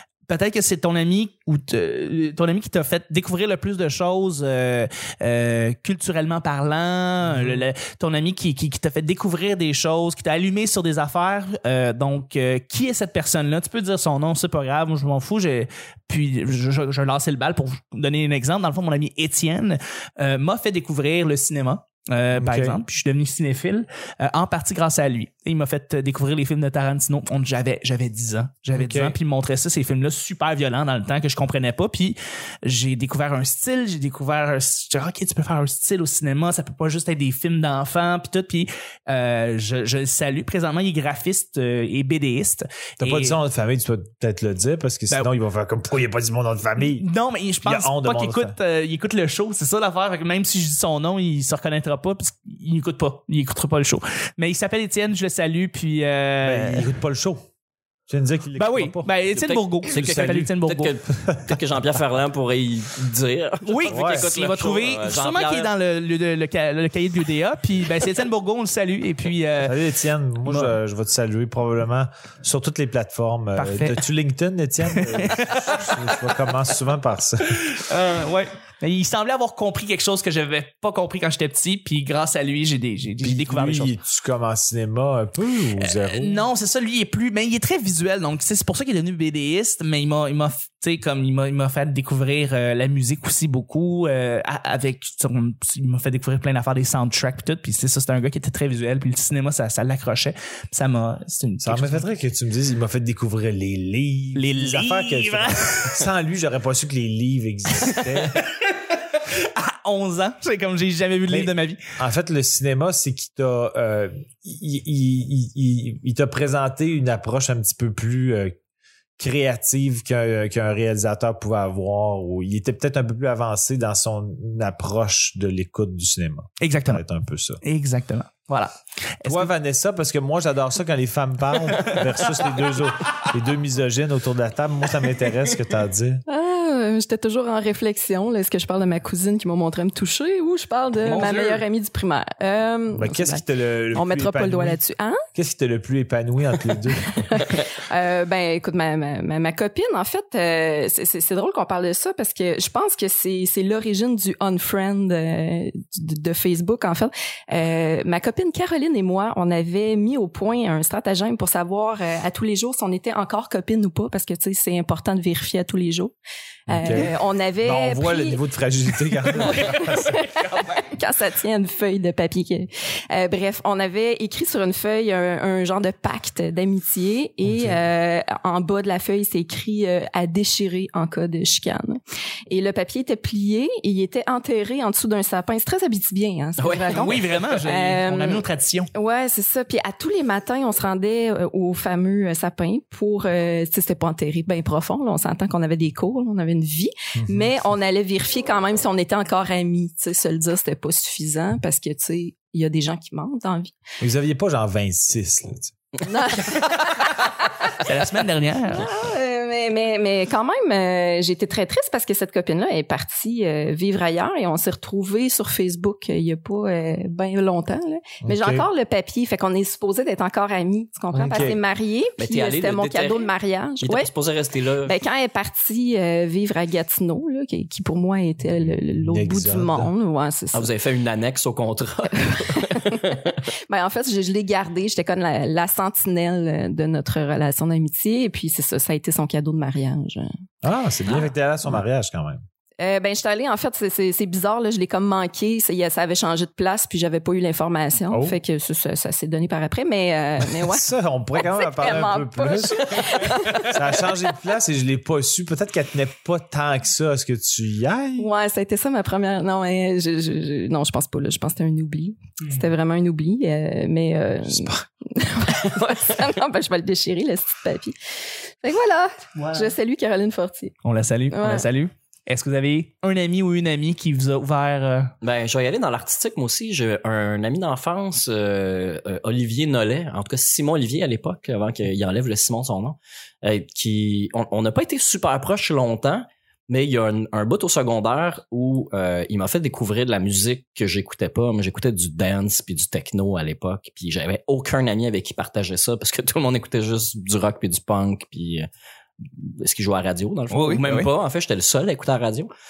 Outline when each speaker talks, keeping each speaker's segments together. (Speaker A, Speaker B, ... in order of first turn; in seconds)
Speaker A: 0.3-43.4, 46.8-56.9, 58.6-61.0, 63.6-69.8, 70.5-70.8, 73.6-74.0, 74.9-76.3, 77.6-83.9, 85.8-102.0, 104.4-106.0, 107.8-108.6, 109.2-111.8, 126.6-127.0, 127.6-129.5, 131.7-132.0, 141.0-141.6, 186.9-188.9, 207.8-208.9, 269.4-269.7, 270.8-275.1, 300.5-301.1
Speaker B: 7.2-7.7, 22.4-22.8, 28.7-29.1, 43.0-47.1, 47.6-48.5, 56.4-57.5, 58.1-59.1, 59.9-60.5, 61.2-61.6, 63.9-64.3, 69.6-77.8, 83.2-86.5, 101.6-108.4, 111.3-118.5, 119.2-127.6, 129.2-136.2, 142.9-144.8, 145.3-147.5, 166.7-170.4, 177.4-177.8, 197.2-197.5, 204.0-205.7, 218.2-218.7, 221.1-221.6, 229.0-229.9, 240.6-242.4, 248.1-248.4, 250.5-258.3
Speaker C: 59.3-65.7, 186.6-187.2, 222.2-224.9, 230.5-233.4, 275.2-298.7, 299.2-302.5
Speaker D: 136.3-145.2, 147.1-166.1, 166.7-168.4, 169.2-203.7, 206.0-207.5, 208.7-224.1, 224.8-230.7, 232.2-240.3, 242.8-254.0, 258.2-267.9, 268.6-270.8, 271.3-271.7